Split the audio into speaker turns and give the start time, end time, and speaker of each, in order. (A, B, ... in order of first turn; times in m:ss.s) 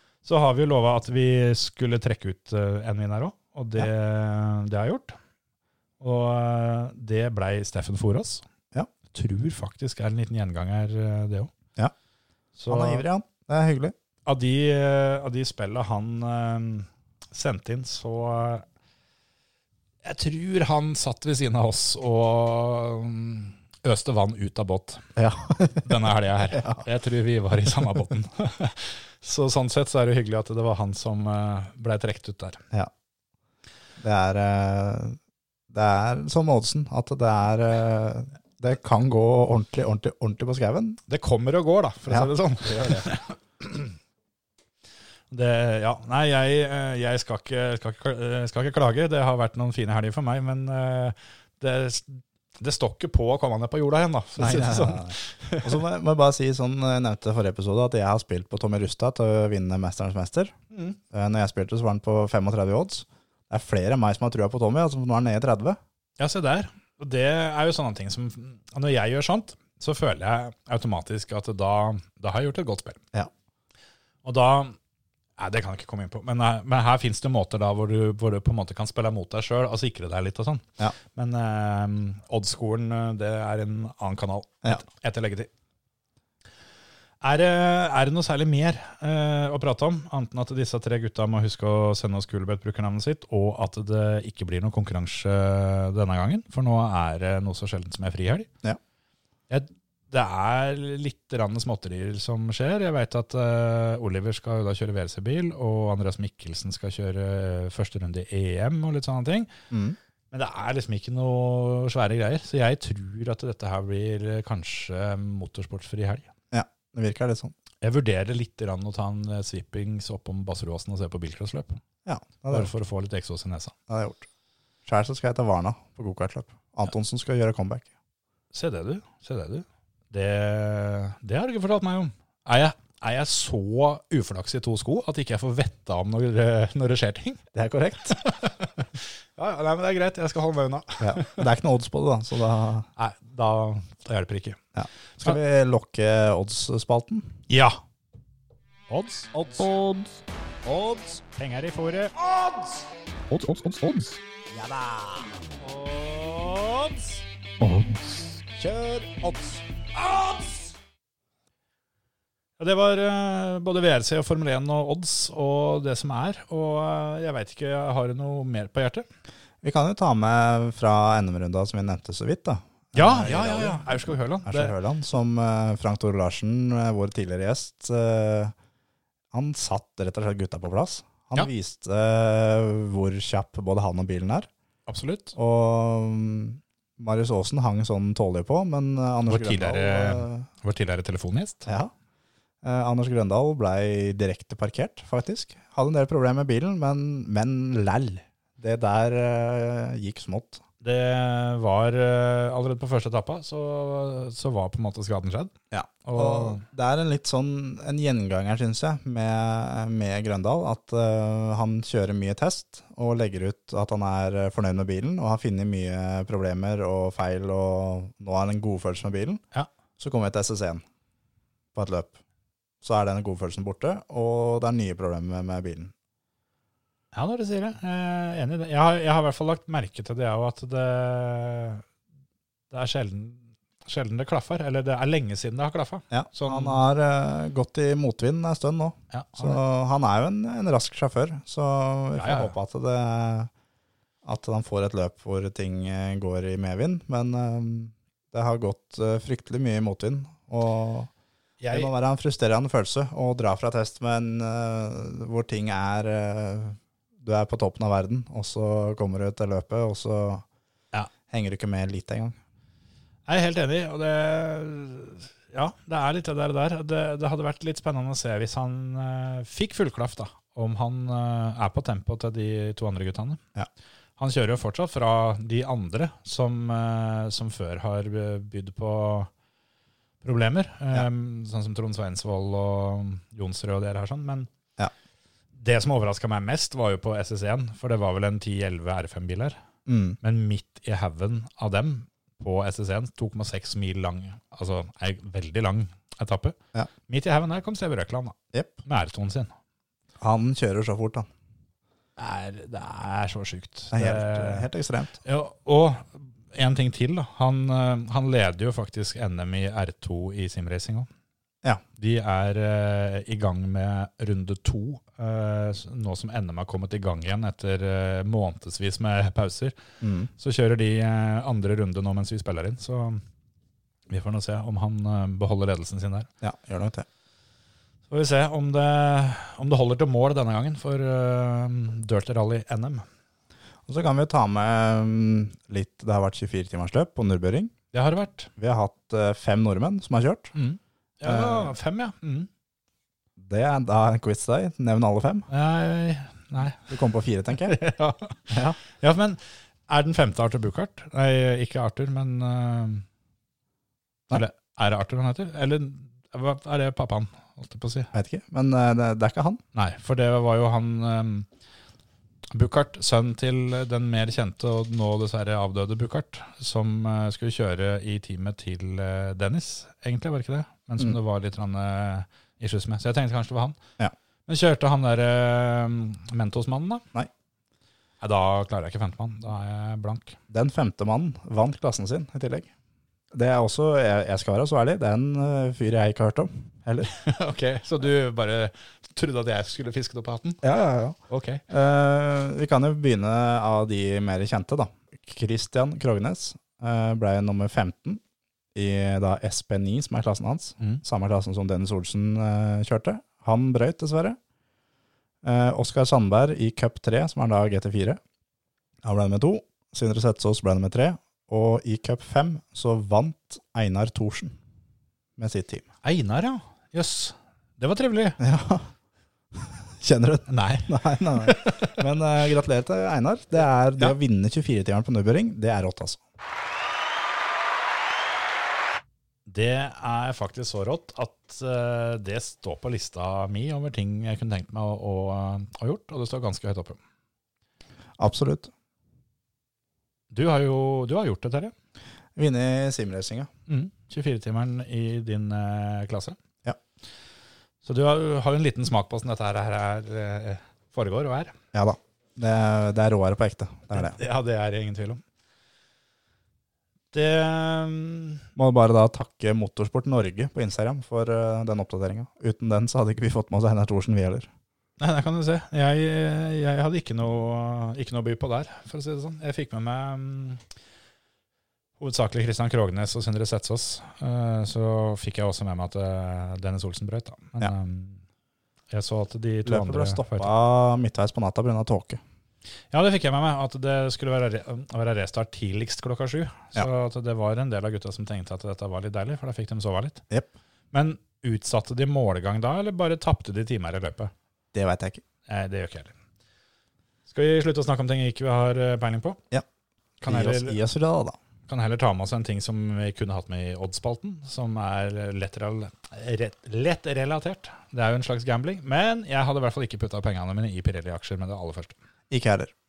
0:00.2-0:05.2 A
0:06.0-0:08.4 A
0:09.1-0:11.5 A
0:12.6-0:13.0 A
0:12.7-0:13.9 B
0:14.2-0:18.6 A
0:20.0-0:25.1 A
0:25.2-0:26.8 B
0:25.7-0:32.6 A
0:34.0-0:35.2 B
0:35.7-0:41.0 B
0:41.1-0:43.9 A
0:42.1-0:43.1 B
0:45.3-0:55.8 A
0:54.4-1:00.6 B
1:00.7-1:01.0 A
1:01.1-1:05.8 B
1:06.2-1:13.0 A
1:14.2-1:14.8 A
1:15.4-1:25.5 A
1:27.2-1:38.5 A
1:39.5-1:49.5 A
1:49.7-1:50.0 B
1:50.3-1:56.3 A
1:56.5-1:57.5 B
1:57.8-2:01.8 A
2:02.0-2:02.7 B
2:02.5-2:03.7 A
2:03.9-2:04.3 B
2:04.8-2:07.9 B
2:08.5-2:17.4 A
2:17.5-2:18.2 B
2:18.1-2:21.4 A
2:21.0-2:22.9 B
2:23.0-2:24.6 A
2:24.7-2:27.4 B
2:27.5-2:27.8 A
2:28.9-2:29.5 A
2:29.6-2:30.9 C
2:31.3-2:32.1 A
2:33.3-2:34.2 C
2:34.5-2:35.3 B
2:35.6-2:37.2 A
2:37.6-2:38.4 C
2:38.6-2:39.6 B
2:42.6-2:49.0 A
2:49.6-2:58.5 B
2:52.9-2:54.8 A
2:59.3-3:04.5 B
3:04.9-3:05.3 A
3:05.4-3:10.4 B
3:09.3-3:11.7 A
3:11.6-3:11.9 B
3:12.6-3:20.6 B
3:20.8-3:25.5 A
3:25.7-3:39.4 B
3:26.0-3:26.6 A
3:40.0-3:40.8 B
3:41.7-3:42.2 B
3:42.8-3:45.9 B
3:47.1-3:51.8 A
3:52.7-3:56.8 A
3:56.1-4:03.5 B
3:59.1-3:59.6 A
4:02.2-4:02.5 A
4:04.2-4:11.1 B
4:11.6-4:11.9 A
4:11.7-4:20.4 B
4:21.3-4:22.4 B
4:23.3-4:33.4 A
4:34.2-4:39.3 A
4:40.2-4:44.5 A
4:45.6-4:49.6 A
4:49.8-4:50.2 B
4:50.2-4:56.6 A
4:57.1-4:59.5 A
5:00.2-5:01.3 B
5:02.2-5:04.7 A
5:03.9-5:05.2 B
5:05.2-5:11.1 A
5:12.0-5:19.8 A
5:20.0-5:20.3 B
5:20.4-5:23.2 A
5:24.1-5:26.3 A
5:26.4-5:27.0 B
5:28.1-5:33.0 A
5:33.9-5:37.7 B
5:37.9-5:38.5 A
5:38.6-5:40.6 B
5:40.5-5:42.5 A
5:41.2-5:41.8 B
5:43.4-5:45.5 B
5:45.5-5:46.9 A
5:46.8-5:47.8 B
5:47.7-5:53.0 A
5:48.5-5:48.8 B
5:54.3-5:58.1 A
5:58.1-5:59.6 B
5:59.7-6:01.5 A
6:02.5-6:13.8 A
6:14.5-6:17.0 A
6:18.2-6:20.4 A
6:20.5-6:22.7 B
6:23.3-6:27.1 B
6:27.0-6:30.6 A
6:30.6-6:38.2 B
6:31.3-6:31.6 A
6:38.7-6:44.4 B
6:45.4-6:48.2 B
6:49.0-6:54.6 B
6:55.4-6:55.8 B
6:56.0-6:58.4 A
6:58.4-6:58.9 B
6:59.5-7:06.2 B
7:00.5-7:02.0 A
7:09.5-7:17.0 A
7:18.2-7:18.7 B
7:20.3-7:21.7 A
7:22.4-7:23.5 B
7:23.7-7:26.4 A
7:27.8-7:31.5 A
7:31.7-7:34.2 B
7:33.9-7:35.2 A
7:37.1-7:38.4 A
7:38.6-7:44.5 B
7:45.0-7:50.6 A
7:52.0-7:58.2 A
7:58.9-8:00.5 A
7:59.6-8:02.2 B
8:02.9-8:10.2 A
8:10.9-8:14.3 A
8:14.7-8:15.2 B
8:15.5-8:16.1 A
8:17.3-8:19.4 A
8:20.2-8:21.4 B
8:20.2-8:20.8 A
8:21.7-8:32.0 A
8:32.3-8:32.7 B